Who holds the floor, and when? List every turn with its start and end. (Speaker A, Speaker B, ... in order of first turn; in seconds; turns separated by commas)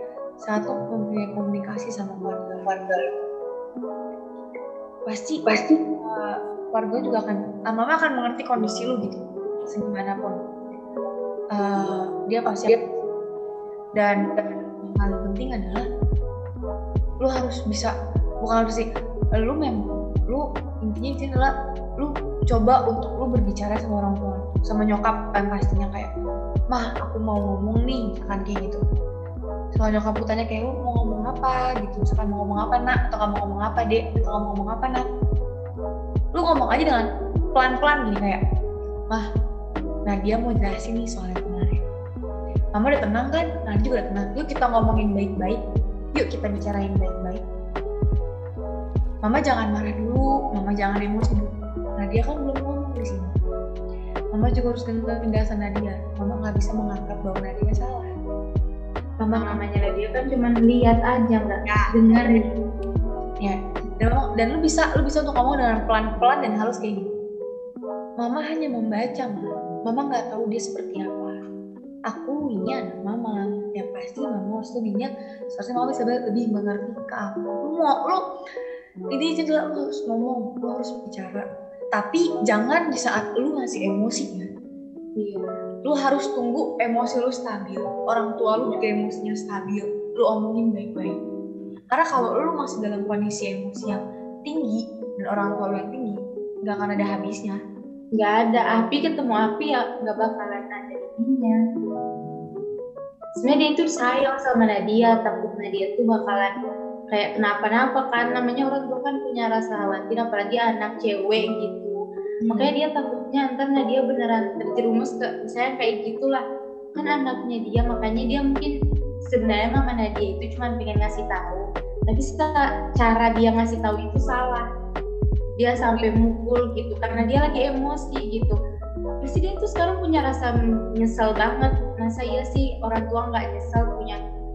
Speaker A: 0.4-2.9, Speaker A: 5.1-10.4, Speaker A: 11.5-12.8, Speaker A: 14.0-15.9, Speaker A: 17.2-18.9, Speaker A: 19.4-26.1, Speaker A: 26.7-28.8, Speaker A: 29.8-35.1, Speaker A: 36.3-38.4, Speaker A: 40.1-41.8, Speaker A: 42.7-45.6, Speaker A: 46.1-47.4, Speaker A: 49.2-53.3, Speaker A: 54.3-58.1, Speaker B: 59.2-62.5, Speaker A: 59.3-59.6, Speaker A: 63.4-67.1, Speaker A: 68.2-71.4, Speaker A: 72.1-78.2, Speaker A: 79.1-84.5, Speaker B: 85.2-85.5, Speaker A: 85.8-91.2, Speaker A: 91.9-97.6, Speaker B: 98.2-101.6, Speaker B: 103.4-106.5, Speaker B: 107.1-112.0, Speaker A: 112.5-112.7, Speaker B: 112.5-116.4, Speaker B: 116.9-118.7, Speaker B: 119.2-124.7, Speaker B: 125.6-128.6, Speaker B: 129.2-134.2